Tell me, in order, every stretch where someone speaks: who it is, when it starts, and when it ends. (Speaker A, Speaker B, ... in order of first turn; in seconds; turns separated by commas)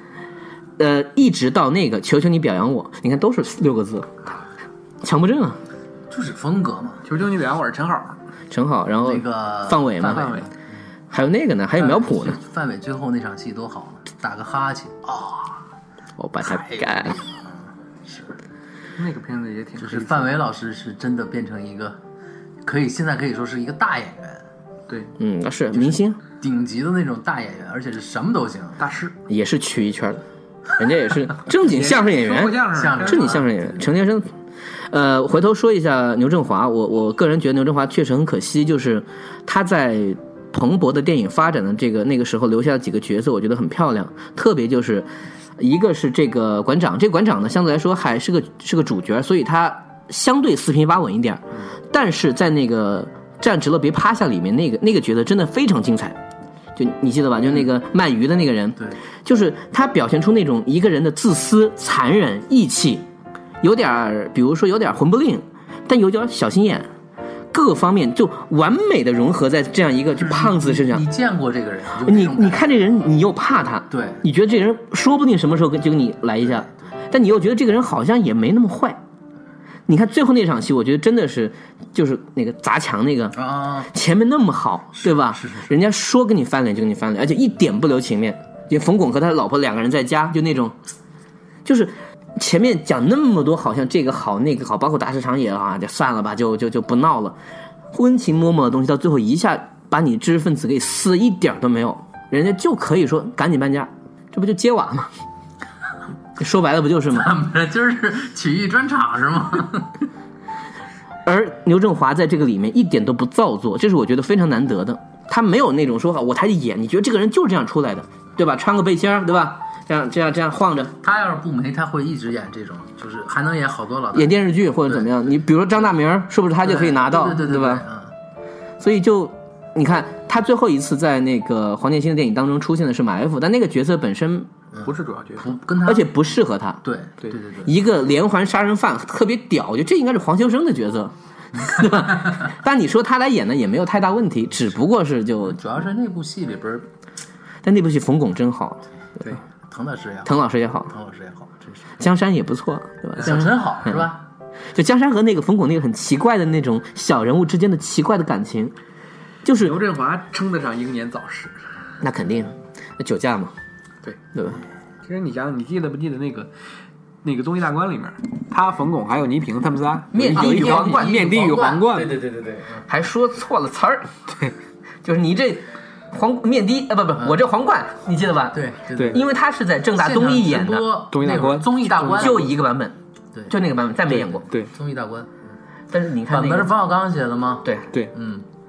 Speaker A: 0.8-4.3, Speaker A: 5.0-5.6, Speaker B: 6.1-7.0, Speaker C: 7.0-8.2, Speaker A: 8.5-10.4, Speaker B: 9.0-10.5, Speaker C: 10.1-10.5, Speaker A: 11.1-12.4, Speaker B: 11.7-15.6, Speaker A: 16.2-17.2, Speaker B: 16.4-18.4, Speaker C: 19.0-20.4, Speaker B: 19.8-22.0, Speaker B: 22.6-24.4, Speaker A: 25.2-26.2, Speaker B: 25.7-28.8, Speaker C: 28.8-29.1, Speaker A: 29.3-30.2, Speaker A: 30.7-34.3, Speaker C: 31.5-33.4, Speaker B: 32.7-33.8, Speaker A: 34.9-45.1, Speaker A: 45.6-56.2, Speaker A: 56.8-63.0, Speaker A: 63.6-66.9, Speaker A: 67.5-71.1, Speaker B: 70.2-73.0, Speaker A: 72.0-79.0, Speaker B: 73.9-74.2, Speaker B: 76.4-76.8, Speaker A: 79.9-83.4, Speaker B: 83.4-83.9, Speaker A: 83.9-90.8, Speaker B: 85.0-85.7, Speaker A: 91.7-97.4, Speaker A: 97.9-105.1, Speaker A: 106.4-107.3, Speaker B: 107.1-109.9, Speaker A: 111.3-120.9, Speaker B: 121.0-125.1, Speaker A: 124.1-127.8, Speaker B: 126.6-128.1, Speaker A: 128.8-134.5, Speaker B: 134.7-136.1, Speaker C: 134.8-135.5, Speaker A: 135.8-136.8, Speaker B: 136.8-137.8, Speaker A: 137.7-145.6, Speaker B: 145.4-146.9, Speaker A: 147.6-148.8, Speaker B: 149.6-152.0, Speaker A: 150.2-150.9, Speaker A: 152.0-154.1, Speaker B: 153.2-154.2, Speaker A: 154.7-158.8, Speaker A: 159.4-159.8, Speaker C: 159.6-161.6, Speaker A: 162.0-163.5, Speaker A: 164.3-164.6, Speaker C: 165.1-166.5, Speaker C: 167.2-172.2, Speaker A: 170.1-171.4, Speaker B: 170.3-172.9, Speaker A: 172.9-174.1, Speaker A: 175.0-180.9, Speaker B: 178.5-179.3, Speaker C: 179.0-179.2, Speaker B: 179.9-182.5, Speaker C: 181.1-182.5, Speaker A: 182.2-182.9, Speaker A: 183.5-184.5, Speaker B: 184.7-185.3, Speaker A: 185.9-186.7, Speaker B: 186.3-188.4